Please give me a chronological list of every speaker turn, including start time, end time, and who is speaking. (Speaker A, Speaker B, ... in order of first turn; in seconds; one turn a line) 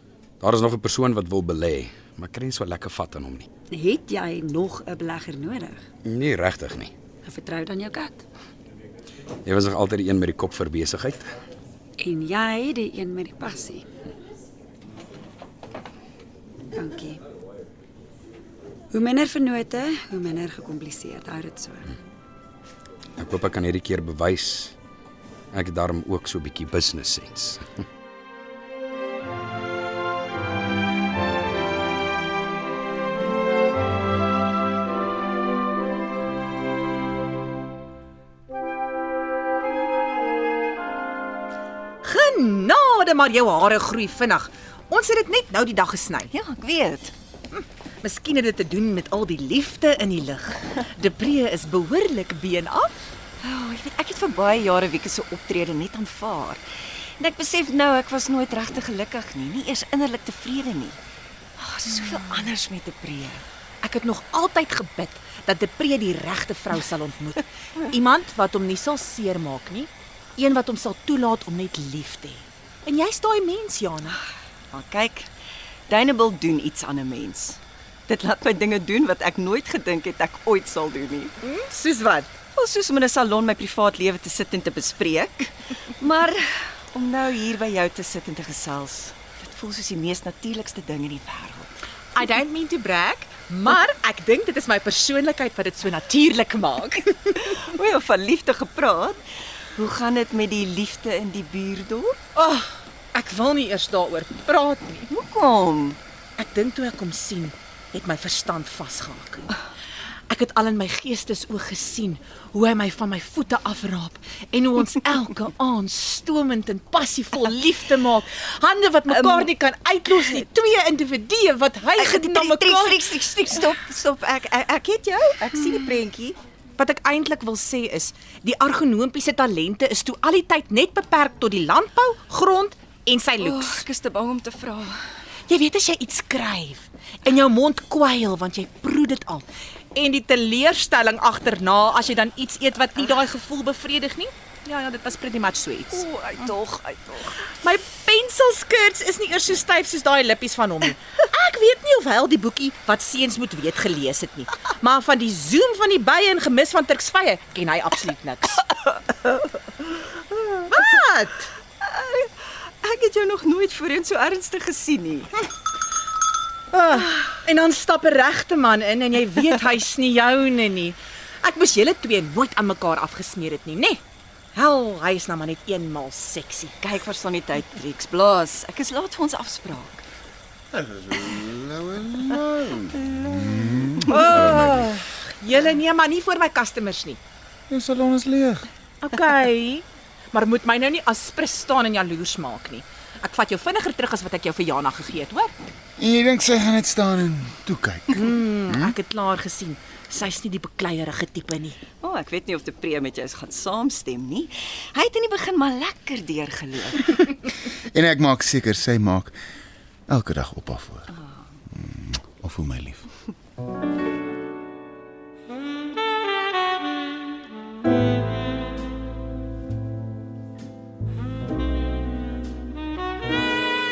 Speaker A: 0.4-3.5
Speaker B: 3.7-5.8
Speaker A: 6.0-6.9
Speaker B: 7.2-8.2
Speaker A: 9.4-11.2
Speaker B: 12.0-13.8
Speaker B: 16.7-17.2
Speaker B: 18.9-22.0
Speaker A: 23.2-24.8
Speaker A: 25.5-27.6
Speaker C: 42.0-46.3
Speaker D: 46.3-47.1
Speaker C: 47.5-53.0
Speaker D: 53.4-56.6
Speaker D: 57.2-61.0
Speaker D: 61.6-63.5
Speaker C: 63.8-74.2
Speaker D: 74.7-75.3
Speaker D: 75.9-81.3
Speaker C: 81.4-82.4
Speaker D: 82.5-91.8
Speaker C: 92.1-97.3
Speaker D: 97.3-99.2
Speaker D: 99.8-102.2
Speaker C: 102.3-105.1
Speaker D: 105.1-106.0
Speaker C: 106.4-109.5
Speaker C: 110.3-123.8
Speaker D: 119.1-119.5
Speaker D: 122.0-126.4
Speaker C: 126.8-133.8
Speaker D: 133.4-135.0
Speaker C: 135.5-146.4
Speaker D: 145.9-147.5
Speaker C: 147.6-158.6
Speaker C: 160.7-161.5
Speaker D: 161.8-165.3
Speaker C: 166.7-174.0
Speaker C: 174.5-176.7
Speaker D: 176.8-180.0
Speaker E: 180.7-184.2
Speaker D: 183.0-184.1
Speaker C: 184.1-187.2
Speaker E: 187.7-188.7
Speaker C: 189.0-195.5
Speaker E: 196.0-198.9
Speaker C: 198.1-201.8
Speaker D: 202.0-207.2
Speaker E: 207.7-209.3
Speaker E: 210.1-211.1
Speaker E: 211.7-213.1